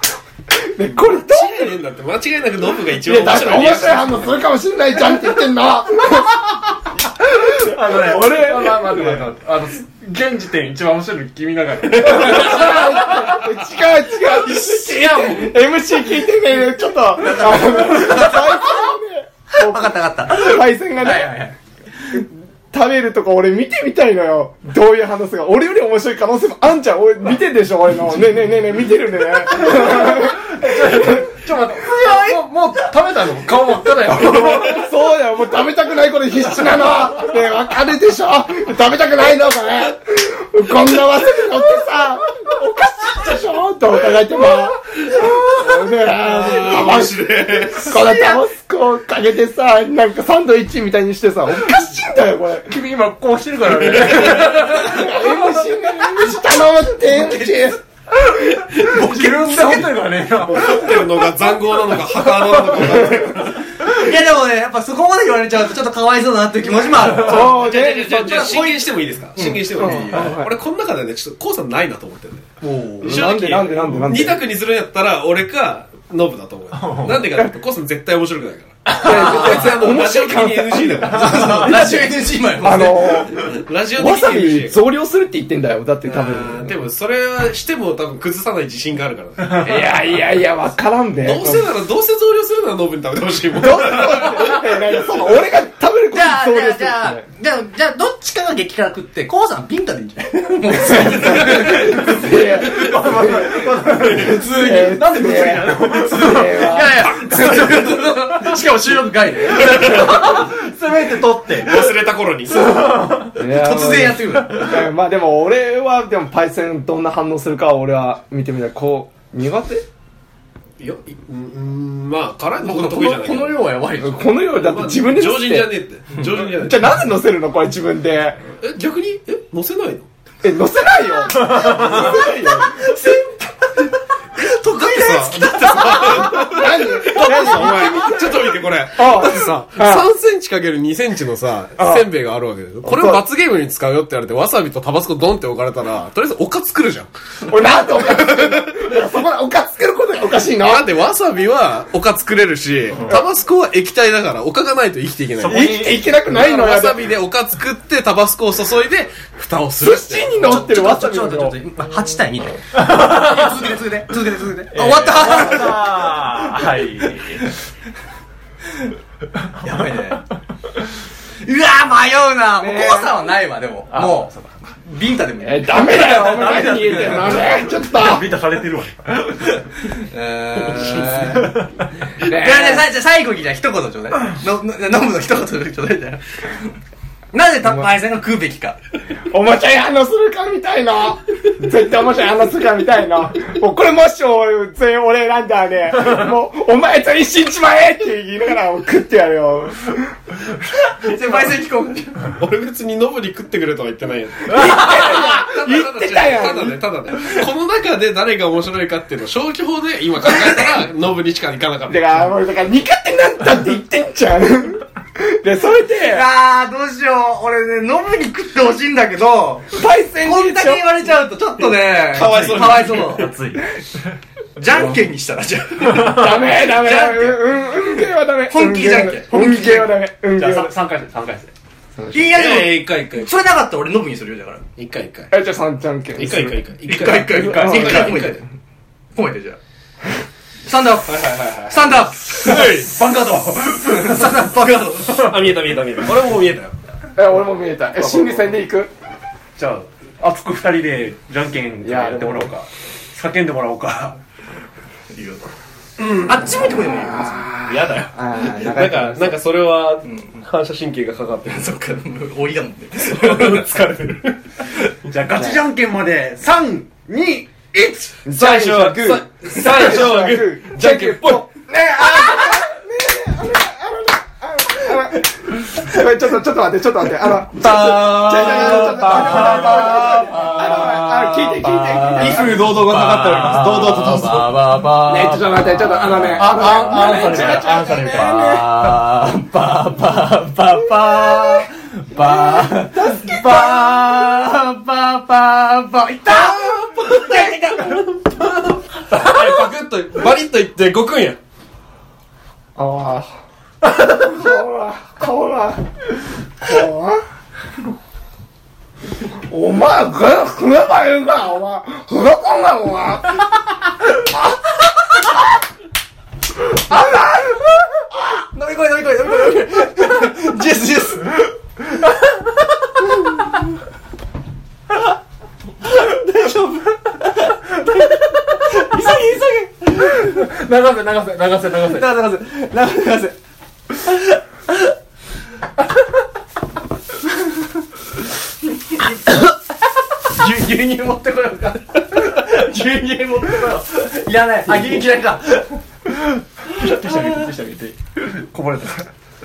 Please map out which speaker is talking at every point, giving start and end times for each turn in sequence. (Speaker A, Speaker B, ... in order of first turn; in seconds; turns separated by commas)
Speaker A: 0.6-1.7, Speaker B: 1.1-4.4, Speaker A: 2.9-9.2, Speaker C: 7.5-12.8, Speaker A: 11.9-21.4, Speaker D: 12.0-13.4, Speaker D: 14.2-15.7, Speaker D: 17.1-18.9, Speaker D: 19.5-22.2, Speaker A: 22.1-31.3, Speaker D: 29.6-30.2, Speaker C: 29.7-34.8, Speaker D: 31.5-32.4, Speaker A: 34.1-52.7, Speaker B: 46.0-48.2, Speaker C: 52.7-55.0, Speaker A: 53.9-57.8, Speaker D: 54.6-55.3, Speaker D: 56.1-57.7, Speaker D: 58.7-60.0, Speaker C: 58.8-61.4, Speaker B: 60.4-63.7, Speaker C: 62.4-62.9, Speaker A: 62.9-63.3, Speaker D: 63.8-68.8, Speaker A: 67.2-68.7, Speaker B: 67.2-72.5, Speaker D: 69.3-70.4, Speaker A: 69.7-70.5, Speaker D: 72.6-73.3, Speaker B: 73.0-82.0, Speaker A: 73.0-74.4, Speaker C: 76.7-77.2, Speaker D: 78.9-80.0, Speaker A: 79.0-82.0, Speaker D: 81.1-83.2, Speaker A: 82.5-86.7, Speaker B: 83.3-84.8, Speaker B: 86.0-89.9, Speaker A: 89.5-91.7, Speaker B: 91.2-94.6, Speaker A: 93.6-97.2, Speaker D: 96.1-102.9, Speaker A: 100.7-107.2, Speaker C: 101.7-104.5, Speaker D: 104.1-111.5, Speaker C: 105.6-106.8, Speaker B: 109.6-110.3, Speaker C: 109.7-111.8, Speaker B: 111.5-113.2, Speaker C: 112.7-113.2, Speaker D: 113.2-114.8, Speaker A: 113.3-119.8, Speaker B: 120.8-123.8, Speaker D: 122.6-124.3, Speaker A: 124.0-125.8, Speaker B: 124.4-127.0, Speaker A: 126.4-128.4, Speaker B: 128.6-130.1, Speaker A: 130.4-133.3, Speaker B: 131.8-132.3, Speaker D: 134.3-138.4, Speaker B: 134.7-147.1, Speaker A: 136.1-138.2, Speaker A: 138.9-140.1, Speaker A: 141.8-142.1, Speaker A: 142.8-143.2, Speaker A: 147.4-150.9, Speaker B: 147.9-148.9, Speaker B: 150.6-160.5, Speaker C: 155.4-156.2, Speaker A: 155.4-157.0, Speaker A: 159.8-161.6, Speaker D: 160.3-166.7, Speaker C: 162.8-163.5, Speaker C: 164.7-167.5, Speaker D: 169.6-170.3, Speaker D: 171.4-177.4, Speaker A: 172.6-173.2, Speaker C: 173.9-174.6, Speaker A: 175.4-178.2, Speaker C: 176.0-179.6, Speaker D: 179.8-181.6, Speaker C: 180.7-181.8, Speaker A: 182.2-182.8, Speaker D: 182.2-186.7, Speaker D: 187.3-188.8, Speaker A: 189.2-200.4, Speaker D: 200.9-202.3, Speaker B: 202.3-212.3, Speaker A: 204.4-206.8, Speaker A: 211.9-216.2, Speaker D: 216.0-223.3, Speaker A: 219.7-220.8, Speaker B: 222.1-223.3, Speaker C: 223.0-224.1, Speaker D: 224.6-227.7, Speaker A: 226.0-230.7, Speaker D: 228.5-229.9, Speaker C: 230.3-231.5, Speaker A: 232.0-232.5, Speaker D: 232.1-234.6, Speaker B: 232.3-233.3, Speaker B: 234.8-235.3, Speaker A: 235.3-236.6, Speaker B: 236.1-238.4, Speaker D: 236.8-238.4, Speaker A: 237.5-238.2, Speaker D: 239.1-239.6, Speaker D: 240.7-245.3, Speaker B: 241.6-242.9, Speaker C: 242.5-244.1, Speaker B: 245.0-246.8, Speaker A: 247.2-248.9, Speaker C: 249.6-254.2, Speaker A: 251.8-252.5, Speaker D: 255.1-257.5, Speaker B: 256.0-256.6, Speaker A: 256.9-259.4, Speaker B: 257.6-261.7, Speaker D: 260.0-260.4, Speaker D: 261.5-263.7, Speaker B: 262.9-264.4, Speaker C: 265.0-268.1, Speaker A: 265.3-265.6, Speaker A: 268.2-282.8, Speaker B: 268.3-271.4, Speaker D: 277.5-298.6, Speaker C: 279.1-279.4, Speaker B: 282.1-284.5, Speaker A: 284.9-288.7, Speaker C: 286.4-288.5, Speaker A: 291.3-291.6, Speaker A: 292.1-294.2, Speaker B: 296.3-301.4, Speaker A: 302.8-303.3, Speaker A: 303.8-307.2, Speaker A: 309.2-313.4, Speaker A: 314.1-315.3, Speaker A: 316.7-318.2, Speaker D: 318.5-321.5, Speaker D: 325.8-330.5, Speaker C: 330.1-332.1, Speaker D: 331.8-333.4, Speaker D: 333.9-334.9, Speaker D: 338.9-339.5, Speaker D: 340.2-345.8, Speaker C: 346.6-349.1, Speaker D: 346.7-347.4